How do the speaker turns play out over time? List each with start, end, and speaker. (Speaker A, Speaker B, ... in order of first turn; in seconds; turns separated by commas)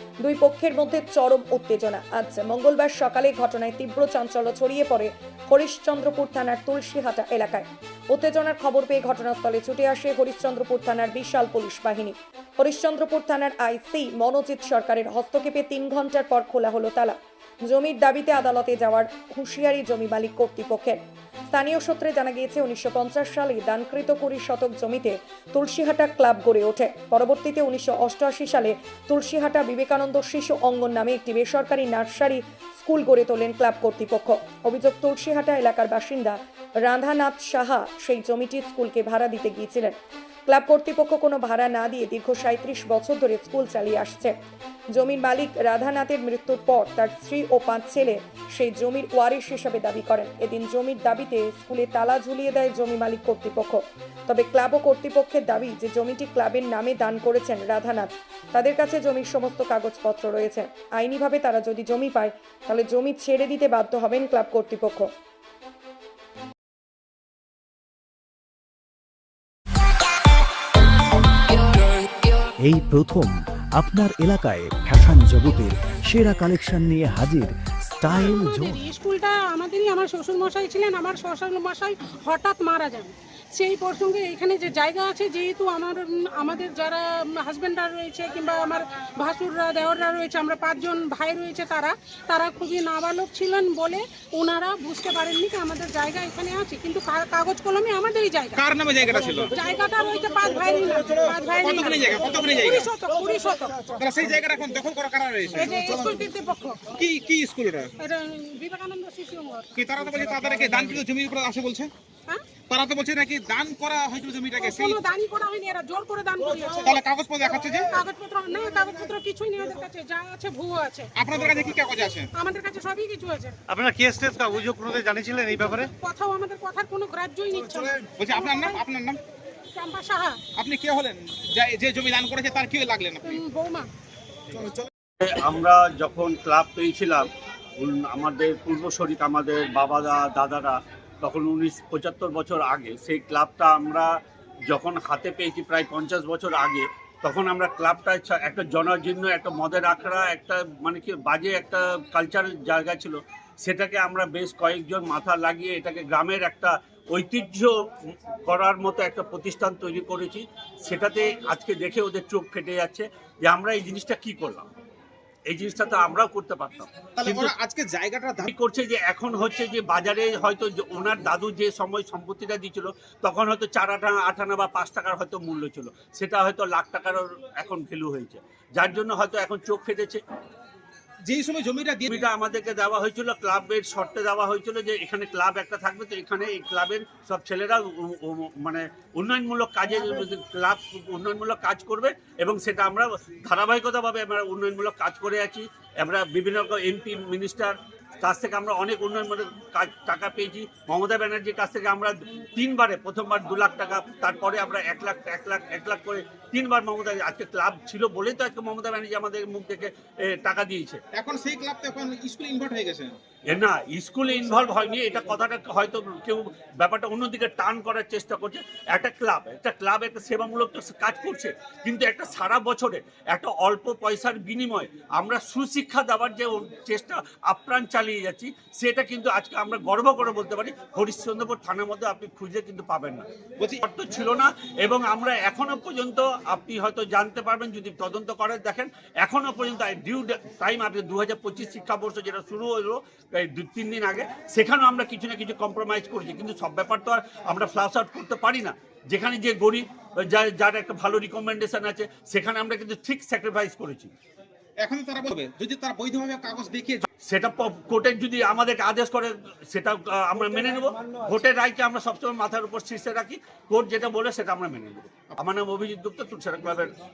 Speaker A: 0.2-21.0, Speaker A: 21.5-39.9, Speaker A: 40.5-44.3, Speaker A: 44.9-65.1, Speaker B: 72.6-78.8, Speaker C: 78.1-98.6, Speaker D: 98.5-99.5, Speaker C: 99.5-104.0, Speaker D: 101.6-102.9, Speaker D: 104.0-105.8, Speaker C: 105.5-106.8, Speaker D: 106.9-107.9, Speaker C: 108.0-109.7, Speaker D: 109.8-111.9, Speaker D: 112.7-115.0, Speaker C: 114.6-117.0, Speaker D: 116.8-117.9, Speaker C: 117.9-121.1, Speaker D: 121.2-122.3, Speaker C: 122.3-123.6, Speaker E: 123.7-125.9, Speaker C: 125.5-128.8, Speaker D: 128.2-129.2, Speaker C: 129.7-130.4, Speaker D: 130.6-133.4, Speaker C: 133.2-133.9, Speaker F: 135.2-144.2, Speaker F: 144.7-164.7, Speaker F: 165.5-167.5, Speaker D: 167.2-168.5, Speaker F: 168.4-180.2, Speaker D: 181.2-182.2, Speaker F: 182.1-211.0, Speaker D: 211.1-213.1, Speaker F: 213.5-233.2, Speaker F: 233.8-254.1, Speaker D: 254.8-257.1, Speaker F: 257.3-266.9